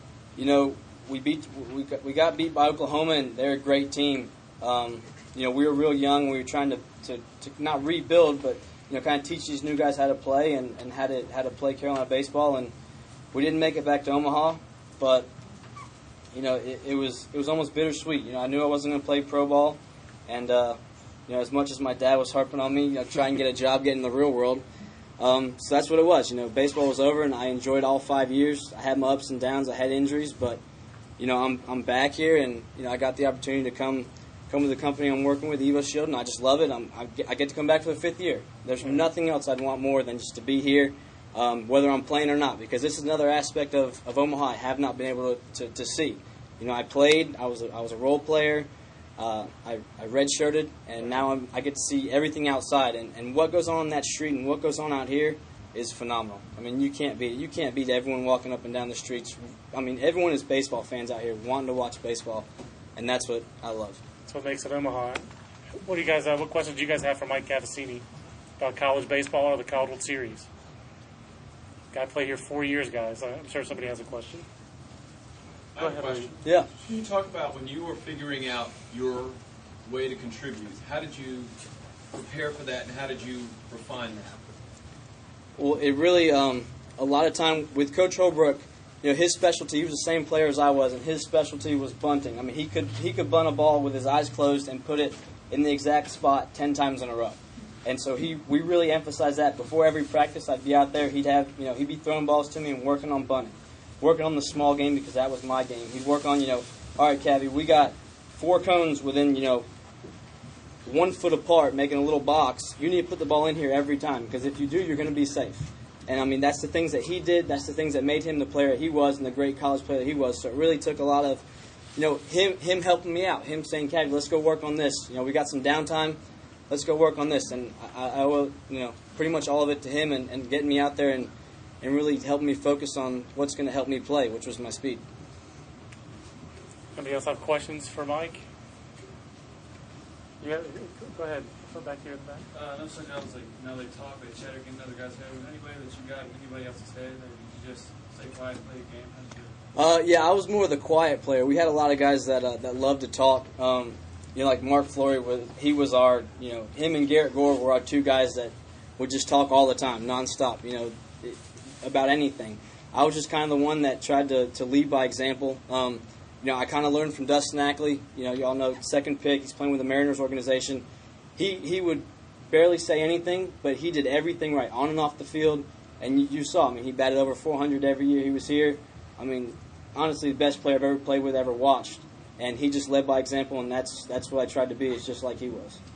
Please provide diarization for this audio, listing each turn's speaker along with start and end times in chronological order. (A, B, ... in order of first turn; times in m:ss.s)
0:00.4-0:12.7 A
0:13.3-0:15.3 A
0:16.3-0:24.6 A
0:25.2-0:30.6 A
0:31.2-1:04.0 A
1:04.3-1:05.3 B
1:05.8-1:08.0 B
1:08.6-1:10.5 B
1:11.9-1:14.5 B
1:15.7-1:21.5 C
1:15.8-1:16.3 B
1:16.4-1:16.7 A
1:22.1-1:24.4 C
1:25.6-1:49.6 A
1:50.8-2:01.4 A
2:02.0-2:11.3 A
2:11.8-2:15.0 A
2:17.0-2:18.4 B
2:20.4-2:22.4 B
2:22.5-2:29.5 D
2:29.8-2:50.8 A
2:51.4-3:05.8 A